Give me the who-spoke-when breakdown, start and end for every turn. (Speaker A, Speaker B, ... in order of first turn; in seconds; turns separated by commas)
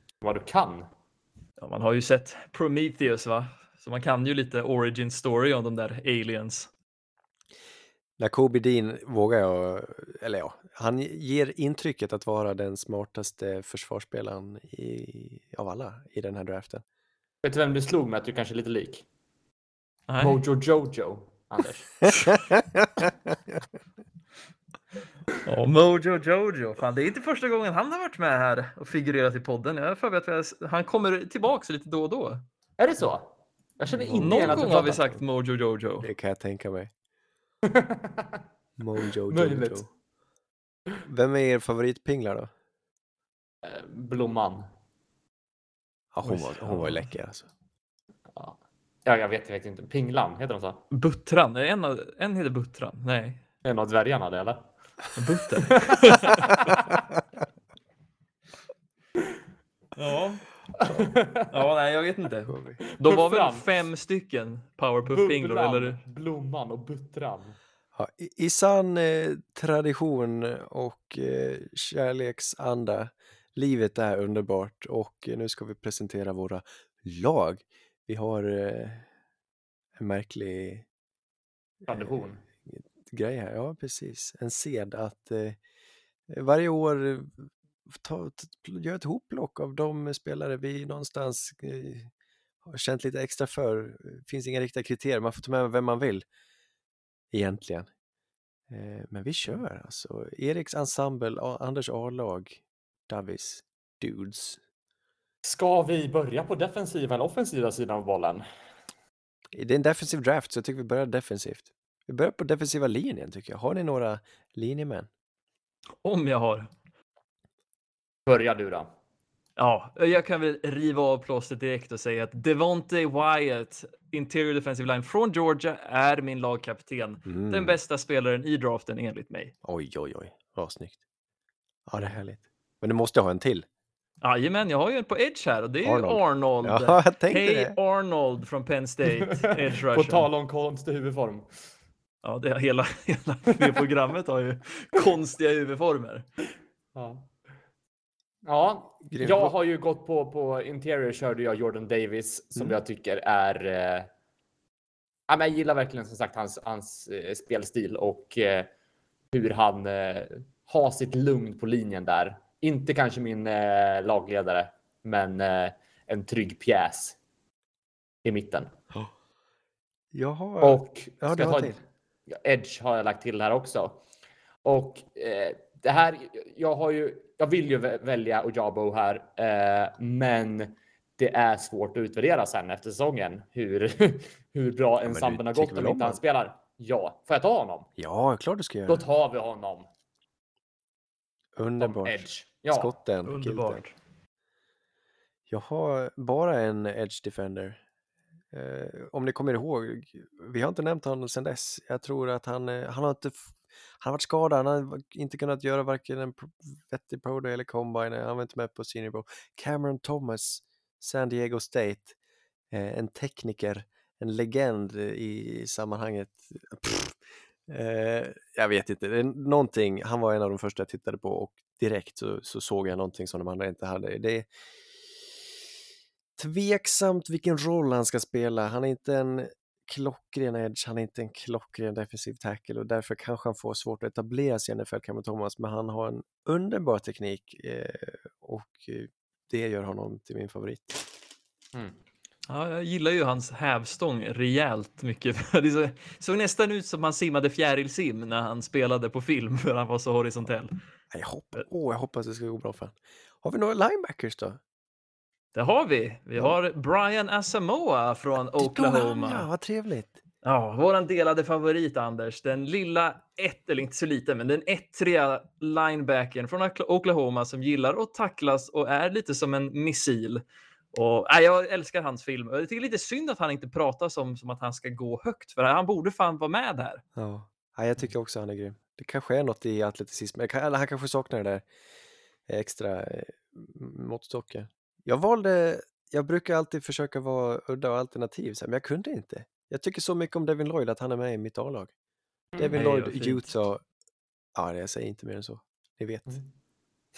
Speaker A: 0.2-0.9, Speaker B: 1.6-6.7, Speaker C: 8.2-16.8, Speaker A: 17.4-19.1, Speaker B: 20.1-20.4, Speaker A: 20.2-21.9, Speaker C: 22.3-23.1, Speaker B: 25.4-32.4, Speaker A: 32.8-35.1, Speaker C: 33.9-35.2, Speaker B: 34.2-36.1, Speaker C: 36.0-36.9, Speaker A: 37.7-38.4, Speaker C: 38.8-39.9, Speaker A: 39.3-39.8, Speaker C: 41.1-42.5, Speaker A: 43.6-44.7, Speaker C: 46.1-47.5, Speaker B: 46.2-47.0, Speaker A: 48.3-50.8, Speaker B: 50.9-53.4, Speaker A: 53.6-54.7, Speaker B: 55.2-56.5, Speaker A: 55.6-56.1, Speaker B: 60.0-60.5, Speaker A: 60.8-61.5, Speaker B: 61.5-66.0, Speaker C: 62.5-62.8, Speaker A: 63.0-63.7, Speaker A: 65.1-67.6, Speaker C: 68.0-79.1, Speaker C: 80.0-80.9, Speaker C: 81.8-82.1, Speaker A: 81.9-82.4, Speaker C: 82.7-85.6, Speaker C: 86.3-92.1, Speaker C: 92.7-96.3, Speaker C: 97.3-97.9, Speaker C: 98.7-104.6, Speaker A: 105.4-108.5, Speaker C: 109.5-115.1, Speaker B: 116.0-116.7, Speaker A: 118.3-118.9, Speaker B: 119.6-129.5, Speaker C: 127.3-127.8, Speaker C: 129.6-131.0, Speaker C: 131.9-133.7, Speaker B: 134.2-140.3, Speaker C: 135.8-137.8, Speaker A: 139.1-141.5, Speaker B: 142.2-146.2, Speaker A: 146.9-147.3, Speaker A: 148.5-154.1, Speaker C: 149.1-149.6, Speaker A: 155.3-158.7, Speaker A: 159.3-167.2, Speaker A: 168.2-168.7, Speaker C: 170.1-171.8, Speaker A: 170.6-171.8, Speaker A: 172.3-174.0, Speaker A: 174.7-187.9, Speaker C: 185.1-186.2, Speaker C: 188.0-189.0, Speaker A: 188.9-189.9, Speaker C: 191.6-193.8, Speaker A: 191.8-192.9, Speaker B: 193.2-193.9, Speaker C: 195.5-197.8, Speaker C: 198.5-212.1, Speaker C: 212.7-224.5, Speaker C: 226.4-241.1, Speaker B: 242.5-250.7, Speaker C: 251.1-254.6, Speaker B: 255.6-259.5, Speaker C: 258.6-260.2, Speaker B: 260.4-277.0, Speaker C: 277.2-281.7, Speaker C: 282.5-291.9, Speaker A: 292.5-292.8, Speaker C: 292.6-293.8, Speaker B: 292.7-293.5, Speaker C: 294.6-296.4